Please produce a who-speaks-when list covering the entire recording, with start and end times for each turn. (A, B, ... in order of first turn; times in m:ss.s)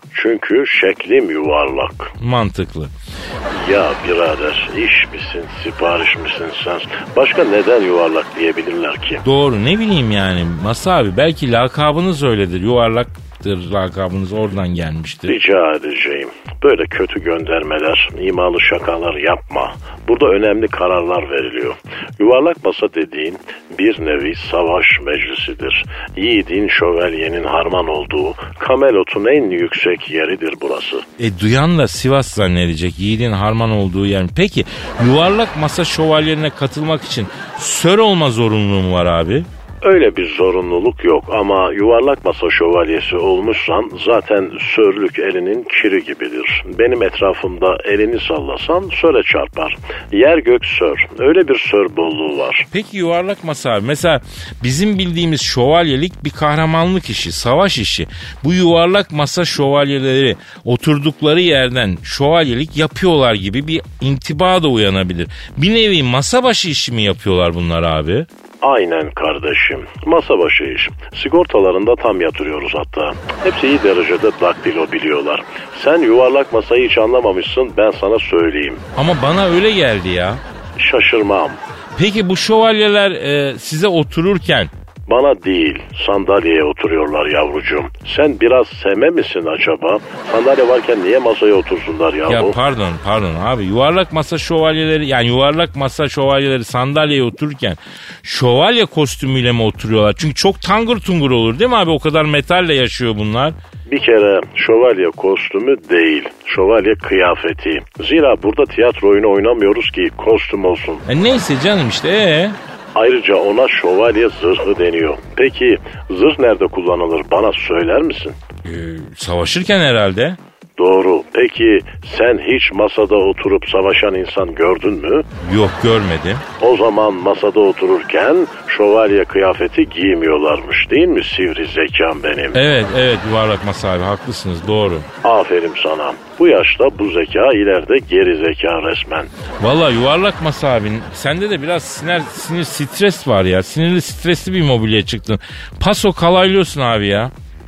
0:00.1-0:02.1 A
0:02.2-0:02.9 B
0:03.5-0:09.2 A
0:09.2-0:15.4 B
0:15.3-0:31.0 A
0:31.2-0:39.5 B
0:39.8-0:52.7 A
0:52.7-1:08.3 B
1:08.6-1:18.8 A
1:19.0-1:20.4 B
1:20.8-1:21.6 A
1:22.0-1:24.7 B
1:25.1-1:32.6 A
1:32.3-1:43.6 B
1:43.9-1:51.0 A
1:51.1-1:52.6 B
1:53.0-1:58.4 A
1:58.6-2:00.4 B
2:00.8-2:05.3 A
2:05.4-2:06.4 B
2:06.6-2:12.6 A
2:12.5-2:15.1 B
2:15.2-2:19.3 A
2:19.6-2:27.3 B